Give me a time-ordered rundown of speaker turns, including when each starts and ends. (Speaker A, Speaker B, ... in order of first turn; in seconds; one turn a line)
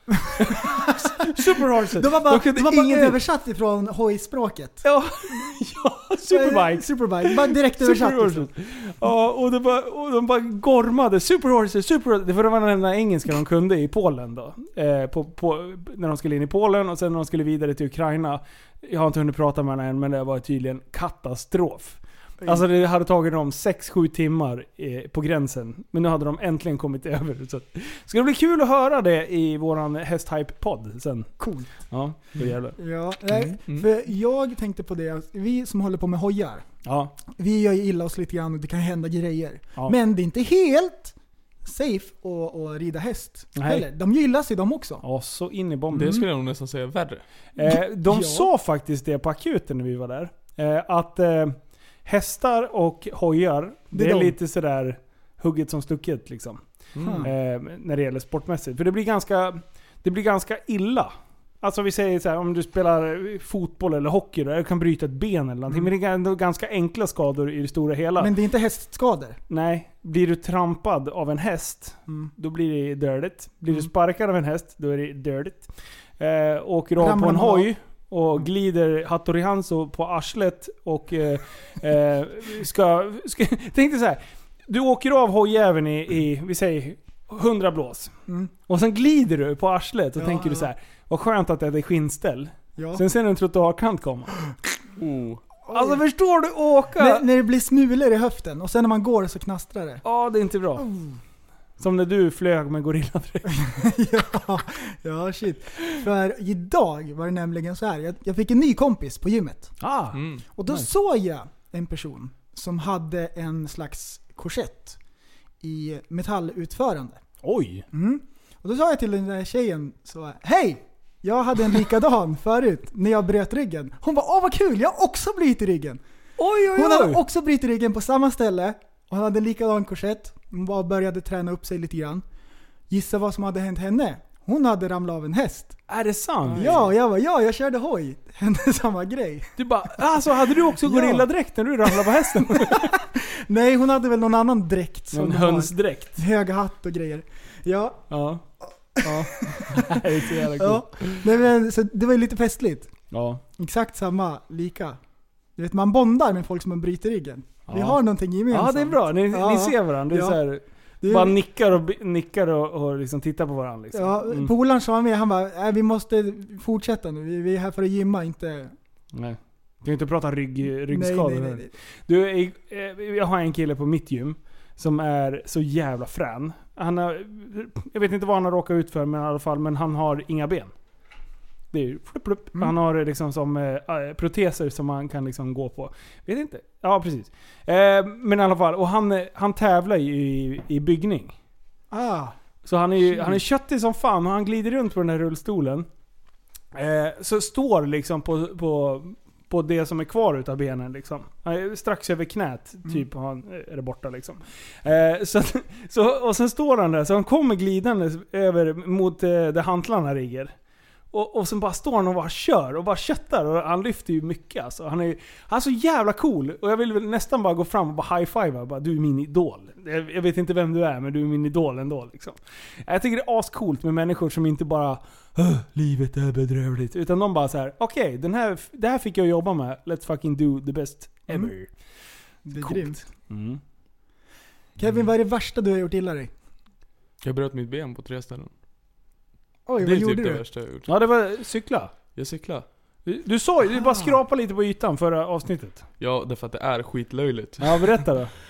Speaker A: 0.3-3.2
Speaker B: 0.5-4.8
Speaker A: 4.8-31.3
Speaker B: 6.3-8.5
Speaker B: 31.4-31.7
Speaker A: 31.9-32.8
Speaker B: 32.8-36.6
Speaker C: 33.4-33.8
Speaker A: 36.8-37.1
Speaker B: 37.3-45.0
Speaker A: 43.5-43.8
Speaker A: 45.0-46.2
Speaker C: 45.9-47.2
Speaker A: 47.6-56.6
Speaker B: 47.6-48.5
Speaker B: 53.9-54.4
Speaker C: 56.9-57.3
Speaker B: 57.0-57.3
Speaker A: 57.2-68.3
Speaker B: 68.2-69.4
Speaker A: 69.5-75.7
Speaker A: 76.2-88.1
Speaker B: 77.0-77.7
Speaker B: 88.3-88.5
Speaker A: 88.7-94.3
Speaker B: 90.2-90.7
Speaker B: 92.8-93.0
Speaker C: 95.0-95.4
Speaker B: 95.7-96.0
Speaker A: 95.7-97.2
Speaker B: 97.0-100.0
Speaker A: 100.0-100.8
Speaker B: 100.8-101.2
Speaker A: 101.8-103.6
Speaker B: 103.5-109.7
Speaker A: 109.8-110.9
Speaker C: 110.1-110.4
Speaker B: 110.5-115.0
Speaker B: 115.6-117.2
Speaker A: 117.4-117.8
Speaker B: 117.9-126.0
Speaker A: 126.4-127.2
Speaker B: 126.6-132.2
Speaker B: 132.9-135.8
Speaker A: 135.9-136.7
Speaker C: 136.5-136.8
Speaker B: 136.5-139.6
Speaker A: 139.6-142.9
Speaker B: 140.6-141.3
Speaker B: 141.9-148.1
Speaker A: 145.1-146.2
Speaker A: 148.1-148.4
Speaker A: 149.0-151.2
Speaker B: 149.0-152.9
Speaker A: 153.1-153.4
Speaker B: 153.6-155.0
Speaker B: 155.6-160.4
Speaker A: 157.7-164.5
Speaker B: 161.0-161.4
Speaker B: 163.9-168.7
Speaker A: 169.1-180.7
Speaker B: 170.7-171.7
Speaker A: 181.7-191.3
Speaker B: 191.9-192.3
Speaker A: 192.6-195.9
Speaker B: 193.1-193.4
Speaker A: 196.7-210.5
Speaker A: 211.1-231.7
Speaker B: 232.4-233.0
Speaker A: 232.6-233.6
Speaker B: 234.8-236.3
Speaker C: 237.2-238.5
Speaker B: 239.7-240.4
Speaker C: 239.8-240.9
Speaker A: 240.9-241.9
Speaker C: 242.1-242.7
Speaker A: 243.0-245.8
Speaker B: 243.7-244.1
Speaker C: 246.0-248.1
Speaker A: 247.6-248.3